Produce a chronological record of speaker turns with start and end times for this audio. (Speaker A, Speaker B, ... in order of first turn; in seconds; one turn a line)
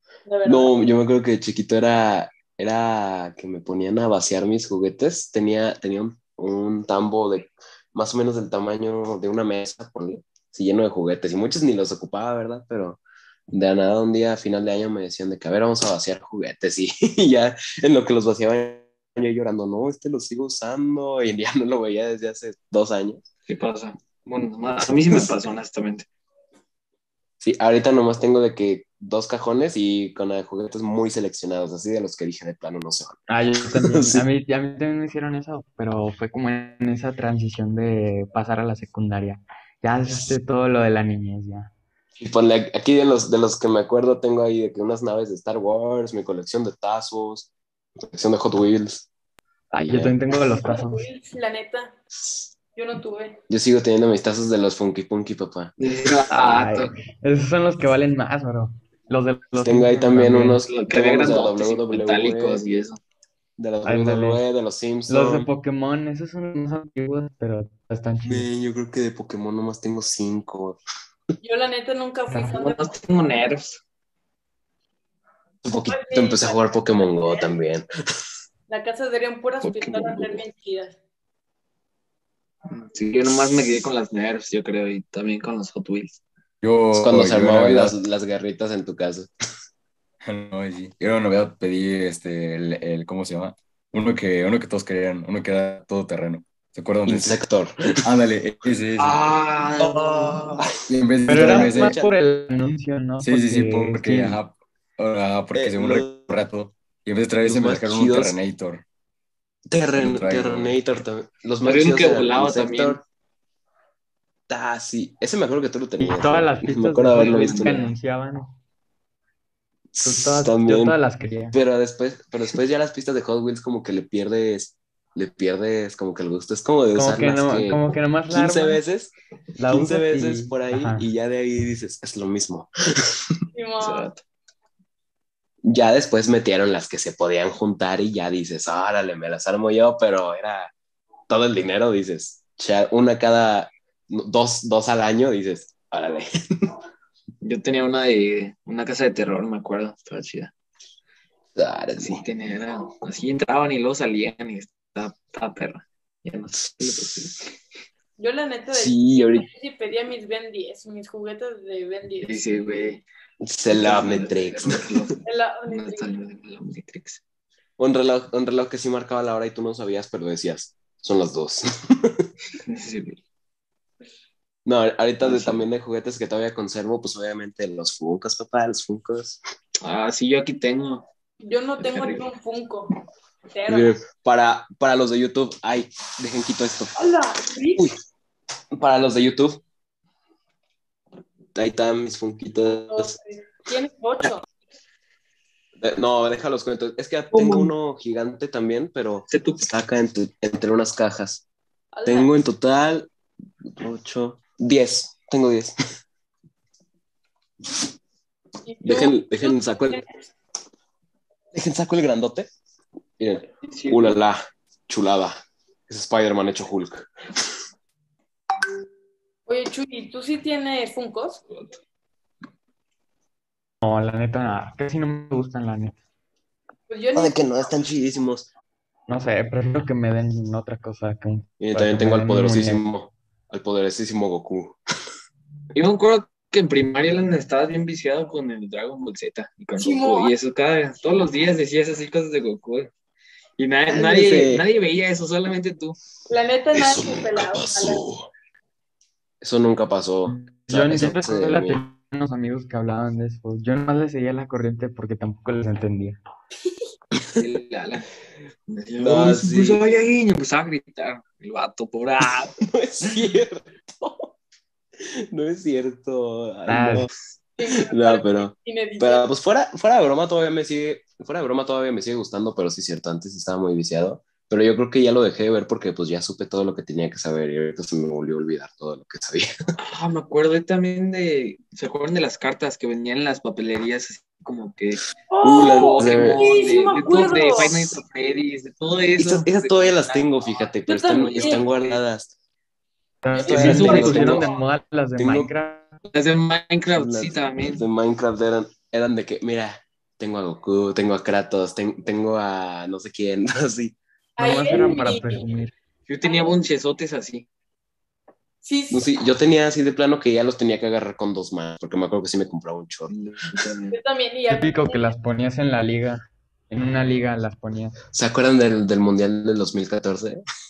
Speaker A: 0.3-0.8
Speaker B: 0.4-13.0
Speaker B: 13.5-23.2
Speaker C: 23.5-26.1
Speaker B: 27.4-33.2
Speaker D: 33.3-41.7
Speaker B: 33.7-34.2
Speaker B: 42.2-47.5
Speaker B: 48.0-49.1
Speaker D: 49.7-51.1
Speaker B: 49.9-50.1
Speaker A: 50.6-52.0
Speaker A: 52.8-53.4
Speaker B: 53.5-55.7
Speaker C: 55.8-56.9
Speaker D: 56.3-60.6
Speaker B: 59.6-62.6
Speaker C: 60.6-63.0
Speaker B: 63.6-65.5
Speaker D: 63.9-64.4
Speaker D: 65.1-68.5
Speaker B: 68.2-70.8
Speaker A: 71.4-72.9
Speaker C: 72.4-73.8
Speaker B: 75.6-77.9
Speaker A: 75.9-77.5
Speaker A: 78.7-81.0
Speaker C: 79.6-80.4
Speaker C: 82.7-86.2
Speaker E: 86.6-88.0
Speaker B: 86.9-89.3
Speaker E: 90.2-97.4
Speaker B: 97.1-97.7
Speaker E: 98.0-99.2
Speaker C: 99.0-100.6
Speaker B: 99.8-100.8
Speaker E: 100.9-102.0
Speaker B: 101.3-102.2
Speaker D: 101.3-104.4
Speaker E: 103.2-108.8
Speaker B: 105.5-106.2
Speaker B: 107.4-108.4
Speaker B: 109.7-113.0
Speaker E: 110.0-110.8
Speaker C: 111.6-113.0
Speaker B: 114.5-117.9
Speaker D: 116.0-118.5
Speaker C: 117.1-117.9
Speaker B: 119.9-121.0
Speaker D: 120.0-121.6
Speaker B: 121.5-129.1
Speaker D: 127.0-128.8
Speaker D: 129.6-131.1
Speaker B: 129.7-133.3
Speaker A: 133.5-134.1
Speaker C: 133.8-134.2
Speaker B: 135.6-140.7
Speaker B: 141.3-146.7
Speaker C: 147.4-150.5
Speaker B: 151.6-152.2
Speaker C: 152.0-157.5
Speaker A: 158.2-162.4
Speaker B: 158.7-159.5
Speaker C: 162.2-163.0
Speaker B: 163.4-165.0
Speaker C: 163.7-167.2
Speaker A: 165.2-166.1
Speaker B: 167.8-172.3
Speaker C: 172.6-173.2
Speaker B: 174.7-179.4
Speaker C: 175.2-175.7
Speaker C: 179.8-181.1
Speaker A: 181.4-182.9
Speaker C: 181.8-182.3
Speaker A: 183.5-184.0
Speaker B: 183.7-186.9
Speaker A: 187.0-187.9
Speaker B: 188.8-189.6
Speaker B: 191.5-193.2
Speaker A: 192.9-194.4
Speaker B: 195.8-201.4
Speaker C: 197.3-197.7
Speaker C: 199.3-199.7
Speaker A: 201.9-202.3
Speaker B: 202.1-203.1
Speaker B: 203.7-205.8
Speaker A: 208.7-210.1
Speaker B: 208.8-210.0
Speaker B: 211.5-212.5
Speaker B: 213.2-217.1
Speaker C: 213.6-214.2
Speaker A: 219.5-221.4
Speaker D: 223.8-226.0
Speaker A: 226.9-227.5
Speaker B: 227.2-228.5
Speaker D: 229.1-232.8
Speaker B: 231.6-234.8
Speaker C: 235.7-242.9
Speaker A: 239.8-240.3
Speaker C: 243.6-246.0
Speaker B: 243.9-244.6
Speaker A: 246.3-248.0
Speaker B: 246.7-248.3
Speaker B: 249.4-251.8
Speaker D: 250.3-256.2
Speaker C: 257.4-258.1
Speaker C: 258.7-262.6
Speaker B: 259.0-259.8
Speaker B: 262.6-264.4
Speaker B: 265.0-267.1
Speaker D: 266.7-267.1
Speaker A: 267.6-269.3
Speaker B: 267.8-279.5
Speaker C: 279.8-292.0
Speaker A: 285.3-287.9
Speaker B: 285.4-286.7
Speaker B: 289.2-292.3
Speaker A: 290.9-291.6
Speaker D: 293.2-295.9
Speaker A: 293.3-294.6
Speaker B: 293.5-294.5
Speaker C: 293.5-294.4
Speaker B: 295.2-295.5
Speaker C: 296.1-297.8
Speaker B: 296.9-304.0
Speaker A: 304.4-305.4
Speaker D: 304.4-305.7
Speaker C: 306.1-307.5
Speaker A: 306.2-306.6
Speaker A: 308.6-309.1
Speaker B: 308.9-313.1
Speaker C: 313.1-314.0
Speaker A: 313.9-315.1
Speaker D: 314.5-318.0
Speaker B: 318.1-320.4